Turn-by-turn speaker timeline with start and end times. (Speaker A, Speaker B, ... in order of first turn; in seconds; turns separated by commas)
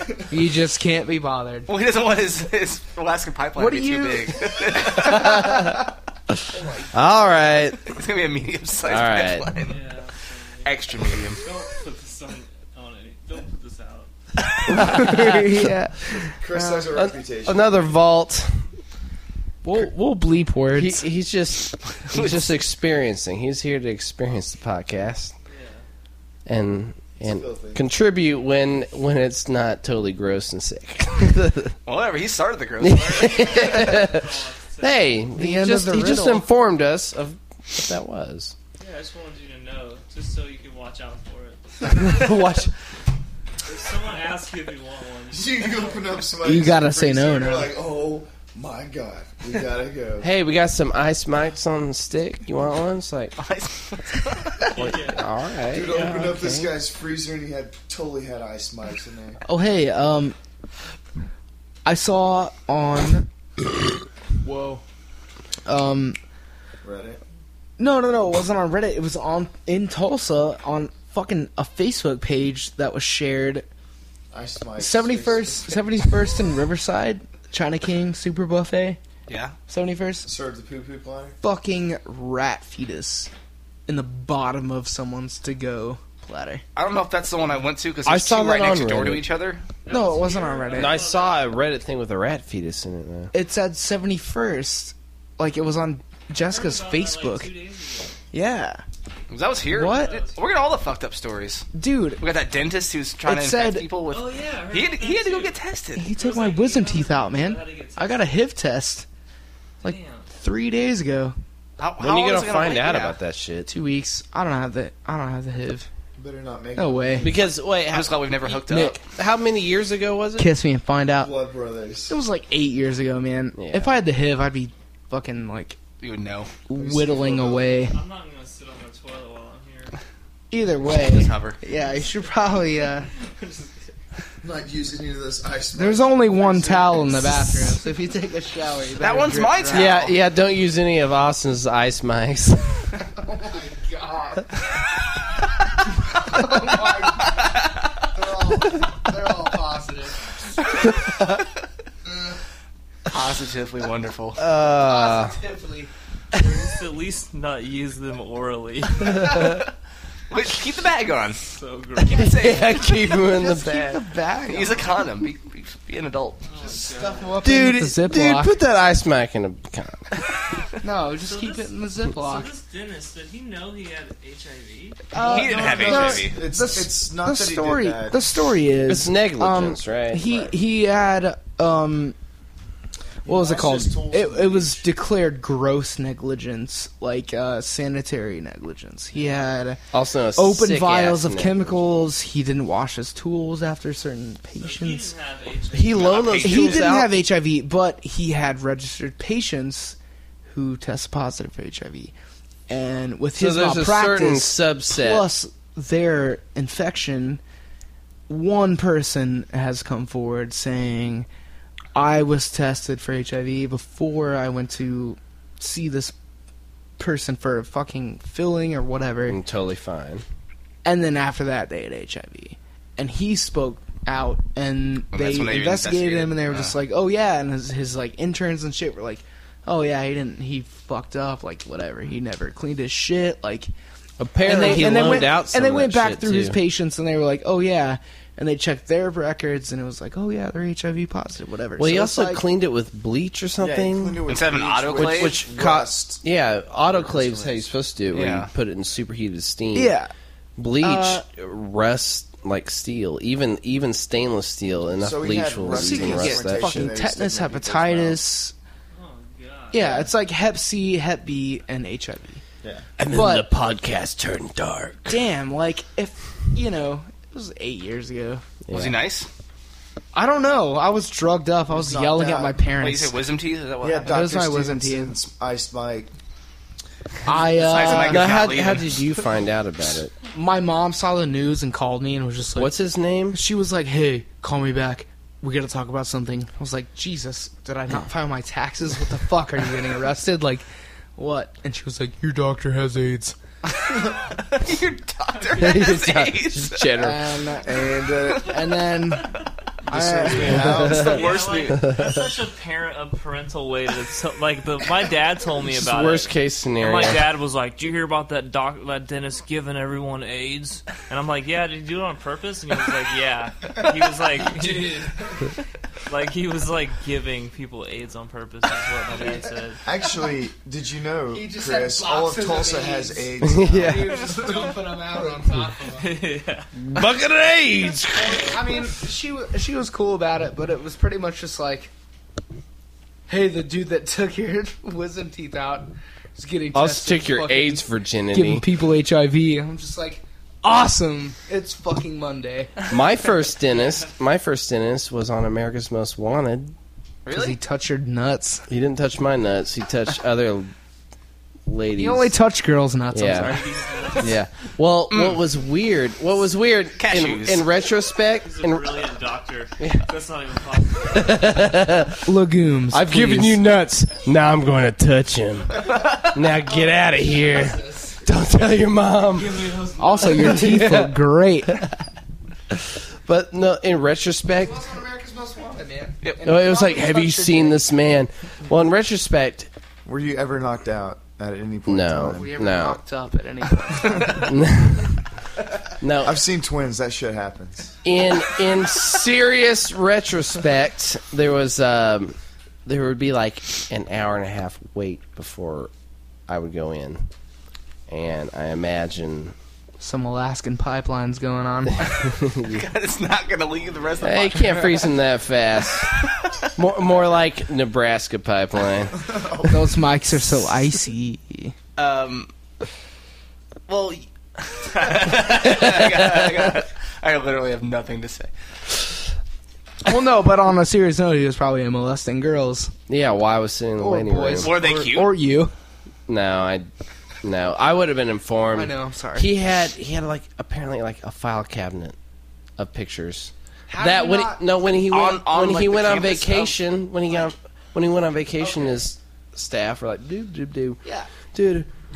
Speaker A: 0.3-1.7, Speaker B: 1.7-5.4, Speaker A: 3.5-5.8, Speaker C: 4.8-7.9, Speaker A: 6.5-6.9, Speaker B: 7.8-9.8, Speaker C: 8.9-9.5, Speaker D: 9.6-10.7, Speaker B: 10.6-11.4, Speaker D: 11.3-14.1, Speaker A: 14.7-16.9, Speaker C: 14.7-15.5, Speaker E: 16.3-17.8, Speaker C: 16.9-18.7, Speaker A: 19.6-21.1, Speaker C: 20.7-25.3, Speaker B: 22.1-22.4, Speaker D: 25.5-25.8, Speaker C: 26.4-31.8, Speaker E: 27.2-27.8, Speaker B: 31.9-33.8, Speaker C: 32.8-38.5, Speaker D: 33.1-35.2, Speaker A: 35.4-36.5, Speaker D: 38.8-42.5, Speaker C: 42.0-42.7, Speaker D: 43.6-46.0, Speaker E: 45.3-50.3, Speaker A: 46.4-47.7, Speaker C: 50.2-53.4, Speaker B: 53.4-54.7, Speaker D: 54.6-55.3, Speaker C: 54.7-56.7, Speaker E: 55.7-59.4, Speaker A: 59.4-60.4, Speaker A: 61.8-63.3, Speaker A: 64.4-64.8, Speaker A: 65.7-66.2, Speaker E: 66.8-67.2, Speaker A: 67.8-73.7, Speaker E: 74.3-75.8, Speaker A: 74.8-79.0, Speaker B: 79.3-79.5, Speaker A: 79.7-80.3, Speaker E: 80.2-81.3, Speaker A: 81.4-83.3, Speaker A: 83.9-86.6, Speaker B: 86.7-89.6, Speaker C: 88.0-89.2, Speaker D: 89.8-91.5, Speaker A: 89.9-91.0, Speaker C: 90.7-93.3, Speaker A: 93.3-97.5, Speaker D: 96.4-98.2, Speaker A: 98.3-98.8, Speaker B: 99.3-101.7, Speaker A: 99.7-100.2, Speaker D: 99.7-100.5, Speaker A: 101.7-102.2, Speaker B: 102.2-106.0, Speaker A: 103.2-103.9, Speaker D: 104.1-105.6, Speaker A: 106.0-109.0, Speaker D: 106.1-108.3, Speaker D: 109.8-110.3, Speaker A: 109.8-111.3, Speaker B: 111.8-113.2, Speaker C: 112.0-113.7, Speaker A: 113.7-115.9, Speaker E: 116.2-117.4, Speaker A: 116.8-117.3, Speaker C: 117.2-120.5, Speaker B: 117.9-119.0, Speaker A: 118.5-119.0, Speaker A: 120.4-121.3, Speaker E: 121.1-122.1, Speaker A: 122.1-125.8, Speaker C: 123.5-124.0, Speaker B: 126.0-126.5, Speaker A: 126.7-127.9, Speaker E: 126.7-127.8, Speaker D: 127.8-130.0, Speaker A: 130.5-133.1, Speaker B: 131.0-131.6, Speaker D: 133.1-133.9, Speaker E: 134.4-137.4, Speaker A: 135.7-140.1, Speaker B: 139.0-140.1, Speaker C: 139.7-142.7, Speaker A: 143.1-144.5, Speaker A: 146.1-147.5, Speaker A: 148.1-150.2, Speaker B: 153.1-154.4, Speaker C: 154.4-155.3, Speaker A: 154.8-155.9, Speaker D: 156.3-159.5, Speaker B: 160.3-161.4, Speaker D: 161.4-162.7, Speaker B: 162.0-162.8, Speaker C: 162.2-164.0, Speaker A: 163.2-164.9, Speaker B: 164.5-166.4, Speaker D: 166.4-167.4, Speaker A: 166.6-168.6, Speaker C: 167.4-170.1, Speaker A: 170.8-172.5, Speaker D: 171.2-176.0, Speaker A: 175.1-182.2, Speaker B: 175.2-176.3, Speaker E: 175.4-178.2, Speaker C: 178.9-180.5, Speaker E: 183.2-184.9, Speaker A: 183.2-189.8, Speaker D: 189.2-189.4, Speaker C: 189.9-191.8, Speaker A: 190.3-195.1, Speaker D: 194.6-196.5, Speaker C: 195.7-197.1, Speaker B: 195.8-196.9, Speaker A: 196.4-202.1, Speaker A: 202.7-207.4, Speaker C: 203.4-205.3, Speaker A: 208.3-211.3, Speaker A: 211.9-216.1, Speaker A: 217.0-219.4, Speaker C: 219.3-220.2, Speaker A: 220.8-233.7, Speaker B: 225.1-226.7, Speaker C: 234.2-236.6, Speaker A: 234.4-242.4, Speaker C: 241.8-244.2, Speaker E: 243.6-246.2, Speaker B: 244.2-245.5, Speaker C: 244.9-249.9, Speaker E: 247.1-247.5, Speaker B: 248.1-248.5, Speaker A: 249.7-250.1, Speaker C: 250.6-256.9, Speaker A: 250.8-251.2, Speaker E: 254.9-258.2, Speaker A: 255.7-258.5, Speaker D: 258.9-260.0, Speaker A: 259.7-262.4, Speaker E: 259.8-260.1, Speaker C: 263.0-265.2, Speaker A: 263.1-263.5, Speaker A: 265.1-268.4, Speaker C: 268.6-269.0, Speaker B: 268.7-269.3, Speaker A: 270.1-273.2, Speaker E: 271.7-272.6, Speaker B: 272.8-274.1, Speaker E: 273.8-276.1, Speaker A: 274.1-275.1, Speaker A: 277.2-278.4, Speaker B: 277.3-279.0, Speaker C: 277.8-280.1, Speaker A: 280.3-282.8, Speaker C: 282.5-283.4, Speaker A: 283.3-293.4, Speaker B: 293.8-296.9, Speaker D: 295.4-295.9, Speaker C: 295.6-297.4, Speaker A: 297.0-297.8, Speaker E: 297.6-298.6, Speaker A: 298.4-299.4, Speaker A: 299.9-301.0, Speaker E: 299.9-301.5, Speaker C: 300.4-302.3, Speaker D: 300.8-315.1, Speaker B: 300.9-301.8, Speaker C: 305.6-307.3, Speaker A: 314.4-315.2, Speaker D: 316.1-319.8, Speaker E: 319.8-324.2, Speaker A: 321.3-326.1, Speaker C: 323.4-324.3, Speaker D: 325.9-326.7, Speaker C: 326.8-328.6, Speaker A: 328.1-331.9, Speaker A: 333.3-342.7, Speaker C: 336.7-338.6, Speaker C: 342.9-346.7, Speaker B: 347.2-347.6, Speaker A: 347.3-348.6, Speaker C: 348.7-350.7, Speaker C: 351.6-352.3, Speaker A: 352.0-354.2, Speaker C: 353.1-353.6, Speaker D: 353.3-354.4, Speaker C: 354.2-359.1, Speaker B: 355.1-355.4, Speaker B: 356.9-357.6, Speaker D: 358.4-361.7, Speaker C: 359.8-360.1, Speaker C: 361.1-362.3, Speaker A: 362.2-363.6, Speaker C: 362.9-369.7, Speaker A: 366.6-368.2, Speaker D: 369.3-370.9, Speaker A: 370.0-371.8, Speaker C: 370.4-371.2, Speaker C: 372.7-374.9, Speaker A: 374.5-377.9, Speaker C: 376.4-379.7, Speaker E: 380.0-382.5, Speaker C: 381.9-383.0, Speaker A: 382.3-384.5, Speaker C: 384.2-385.2, Speaker C: 386.0-386.4, Speaker E: 386.2-388.0, Speaker C: 388.0-395.9, Speaker C: 396.5-397.2, Speaker C: 398.1-399.5, Speaker A: 400.0-402.3, Speaker C: 402.2-402.8, Speaker B: 402.7-405.1, Speaker C: 404.2-406.2, Speaker B: 406.2-406.7, Speaker C: 406.8-409.3, Speaker E: 409.1-410.0, Speaker A: 409.6-411.7, Speaker B: 412.0-412.5, Speaker B: 413.9-418.5, Speaker C: 415.3-416.7, Speaker A: 420.0-422.9, Speaker C: 423.1-424.8, Speaker A: 424.0-425.7, Speaker B: 424.6-425.4, Speaker C: 426.3-426.9, Speaker C: 427.4-432.1, Speaker A: 428.7-429.5, Speaker C: 432.8-441.0, Speaker A: 433.9-434.6, Speaker B: 435.0-436.8, Speaker A: 438.6-439.0, Speaker A: 441.0-441.3, Speaker C: 441.5-441.9